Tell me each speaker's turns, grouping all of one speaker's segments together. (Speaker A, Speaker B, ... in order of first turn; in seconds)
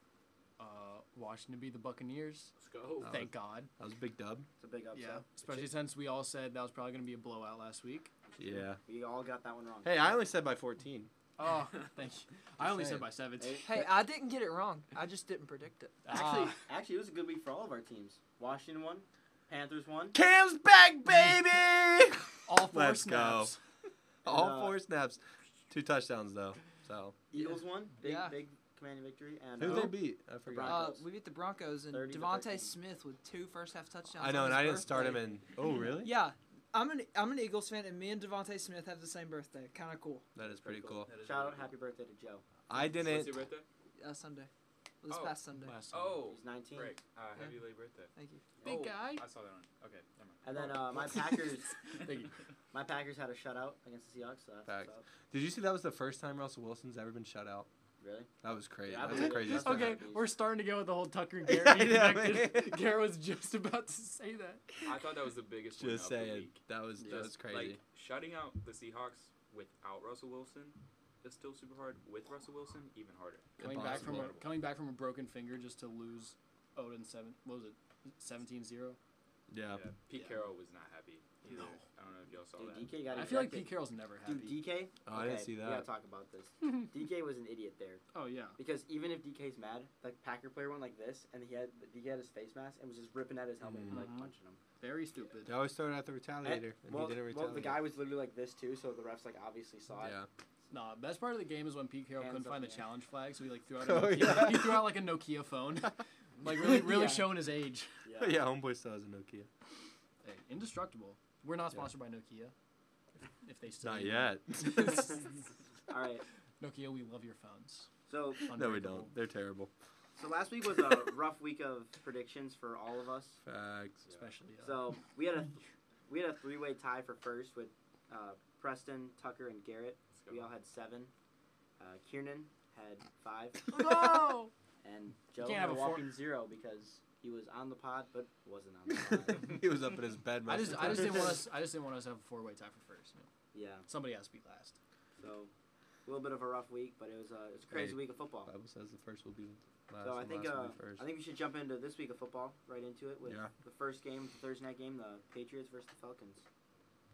Speaker A: 0.6-2.5, 3.0-3.7, 4.9-8.1, 11.4-13.8, 16.0-16.6, 22.5-23.6, 45.6-46.2, 48.6-49.2, 50.5-52.3, 59.1-64.9, 67.0-67.3, 73.6-79.0, 81.5-81.8, 83.1-84.6, 88.1-88.6, 93.9-95.6, 100.7-108.1, 110.2-112.5, 113.2-115.3, 116.6-117.9, 118.5-119.1, 124.1-124.8, 133.7-134.5, 135.4-136.2, 140.4-143.3, 143.8-144.8
Speaker B: 2.6-3.1, 41.0-41.7, 42.7-43.6, 45.1-45.4, 45.9-50.5, 64.8-74.5, 79.7-83.0, 130.2-130.5
Speaker C: 3.0-4.5, 8.4-8.8, 9.8-11.1, 12.6-13.1, 20.1-23.6, 24.2-27.1, 29.6-30.9, 34.1-36.1, 40.3-41.1, 42.7-43.4, 54.6-57.7, 58.4-60.0, 61.4-62.8, 65.7-67.8, 73.6-74.4, 79.5-79.8, 85.0-85.9, 93.6-94.0, 95.4-97.8, 100.0-100.3, 103.8-104.9, 108.2-109.5, 113.8-115.2, 118.5-119.7, 123.4-124.0, 139.3-141.4, 147.7-151.1, 153.2-153.5
Speaker D: 4.6-5.4, 8.3-10.2, 13.4-13.9, 16.1-20.1, 24.2-24.8, 27.3-31.1, 31.9-32.8, 40.4-42.4, 46.2-47.0, 50.4-52.1, 52.7-55.0, 58.0-58.3, 58.8-60.3, 81.4-81.8, 82.5-94.6, 96.4-100.2, 102.2-102.8, 106.6-107.4, 108.0-108.4, 115.9-116.2, 118.1-118.5, 120.2-123.4, 124.6-131.1, 131.8-133.7, 134.8-139.7, 140.8-141.1, 143.5-143.9, 145.2-145.5, 146.0-148.5, 150.0-156.4
Speaker E: 13.6-16.2, 28.0-28.4, 29.6-30.0, 30.6-35.3, 35.9-40.3, 44.0-44.5, 45.0-45.8, 48.1-48.4